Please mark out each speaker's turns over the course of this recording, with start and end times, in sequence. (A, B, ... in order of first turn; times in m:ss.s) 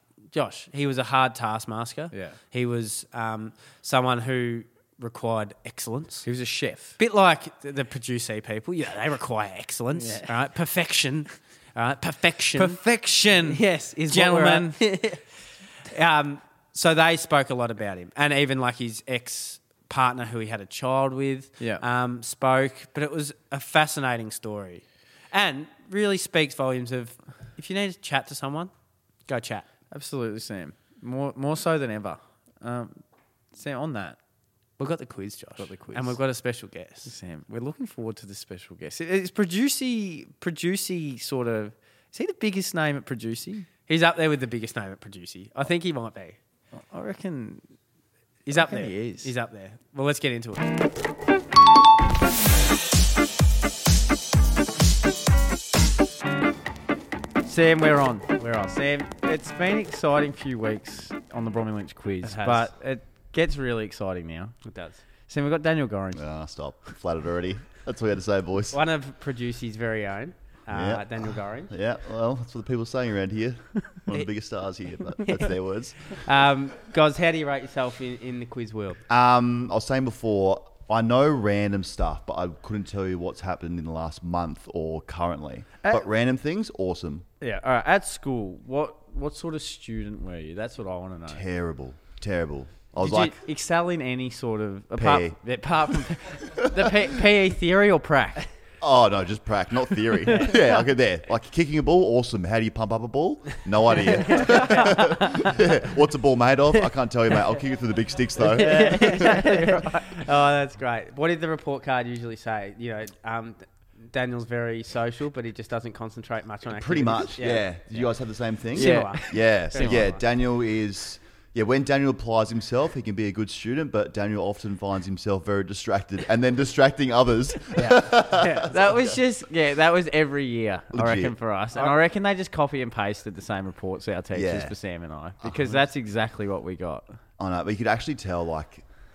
0:00.3-0:06.3 A
0:02.1-0:02.4 B
0:06.2-0:07.0 B
0:07.0-0:12.8 A
0:10.0-0:10.3 B
0:12.6-0:14.8 B
0:13.4-0:28.7 A
0:29.3-0:29.7 A
0:29.9-0:33.0 B
0:33.5-0:34.2 B
0:34.8-0:37.1 A
0:35.6-0:36.2 B
0:37.0-0:43.7 B
0:43.9-0:46.4 A
0:46.9-0:47.6 B
0:48.4-0:50.8 A
0:48.5-0:49.3 B
0:57.4-1:04.6 B
1:02.2-1:02.7 A
1:04.6-1:05.0 A
1:05.3-1:06.2 B
1:06.1-1:08.8 C
1:08.7-1:11.7 A
1:10.7-1:16.2 C
1:15.2-1:15.6 A
1:16.1-1:19.0 A
1:19.1-1:27.3 C
1:27.4-1:31.4 B
1:31.3-1:33.4 C
1:33.0-1:37.5 B
1:35.0-1:35.4 C
1:36.7-1:38.5 A
1:38.8-1:49.4 C
1:40.3-1:40.6 A
1:44.2-1:45.6 A
1:44.5-1:44.9 B
1:48.4-1:50.2 B
1:48.4-1:58.1 A
1:56.7-2:09.1 C
1:58.7-2:00.2 A
1:58.7-2:00.0 B
2:07.8-2:08.8 A
2:08.7-2:17.1 B
2:10.9-2:11.4 C
2:14.3-2:14.8 C
2:15.4-2:15.8 C
2:17.4-2:18.8 C